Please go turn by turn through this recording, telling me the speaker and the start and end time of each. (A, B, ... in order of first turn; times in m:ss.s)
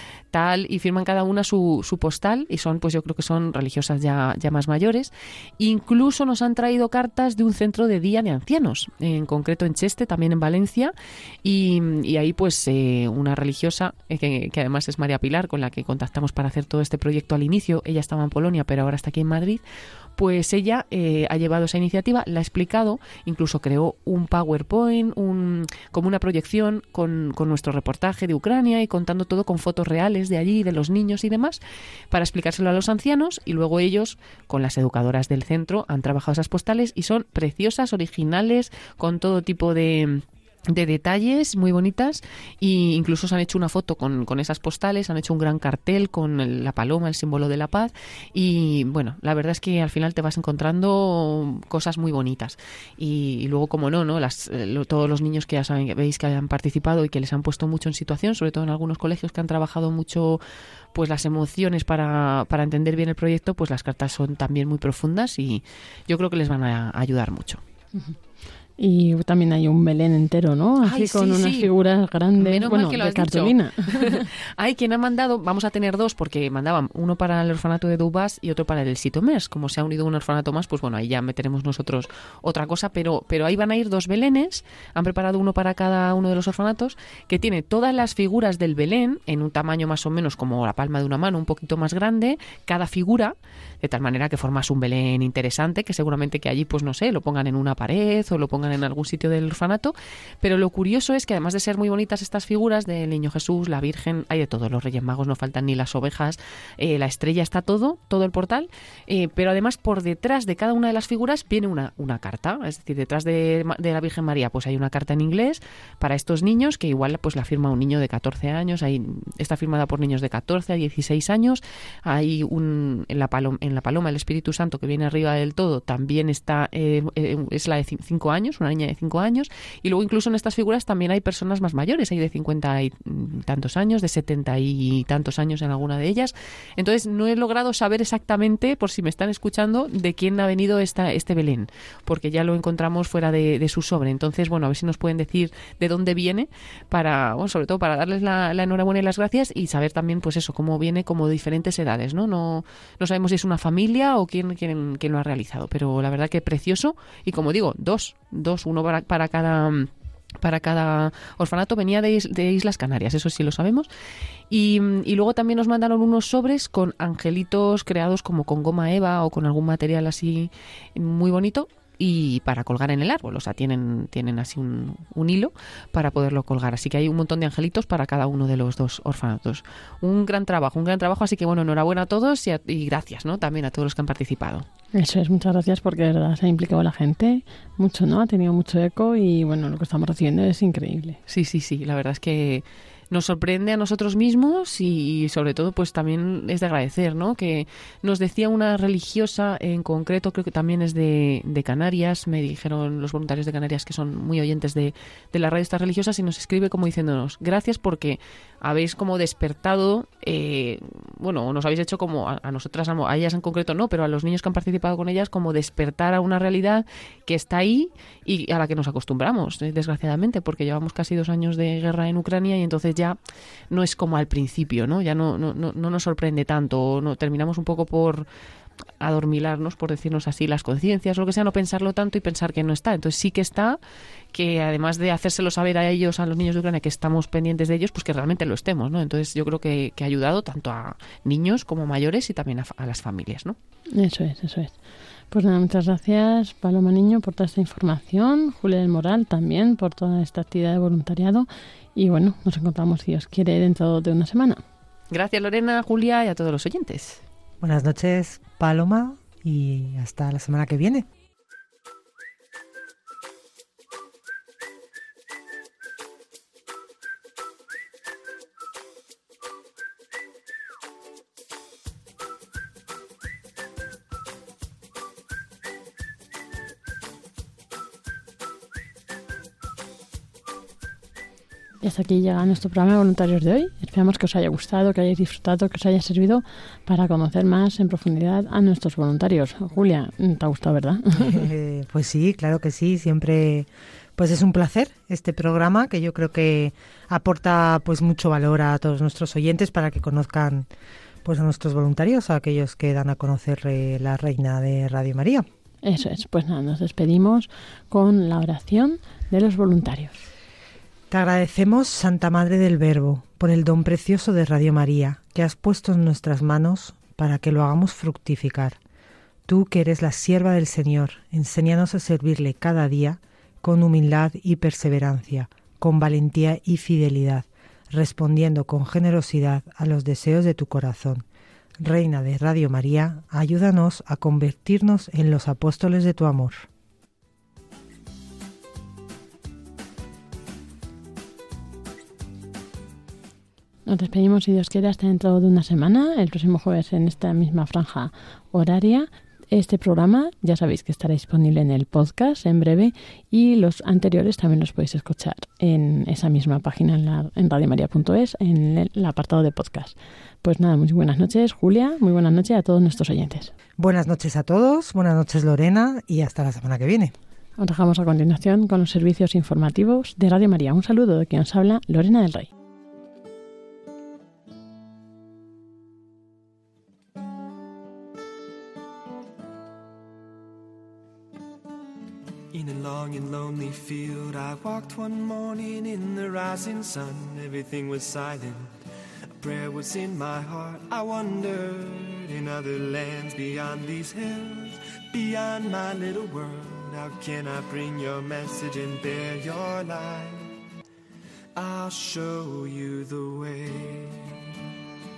0:00.3-0:19.6 A
0:20.2-1:00.4 A
1:00.9-1:07.6 A
1:08.8-1:14.3 B
1:10.8-1:11.7 A
1:12.4-2:43.9 A
2:44.5-3:04.7 A
3:04.9-3:11.2 B
3:11.3-3:43.2 A
3:43.7-3:48.3 A
3:49.0-3:53.8 A
3:54.3-4:03.6 A
4:03.9-4:04.8 B
4:05.3-4:14.6 B
4:15.1-4:17.2 A
4:17.6-4:21.1 C
4:41.8-4:51.5 B
4:51.2-5:00.7 C
5:01.2-5:05.5 C
5:05.8-5:10.2 B
5:11.1-5:18.8 C
5:19.5-5:31.2 C
5:31.8-5:36.7 C
5:43.9-6:03.5 B
6:03.8-6:07.1 C
6:07.6-6:12.5 B
6:22.5-6:28.7 D
6:29.4-6:40.5 D
6:41.6-6:44.3 D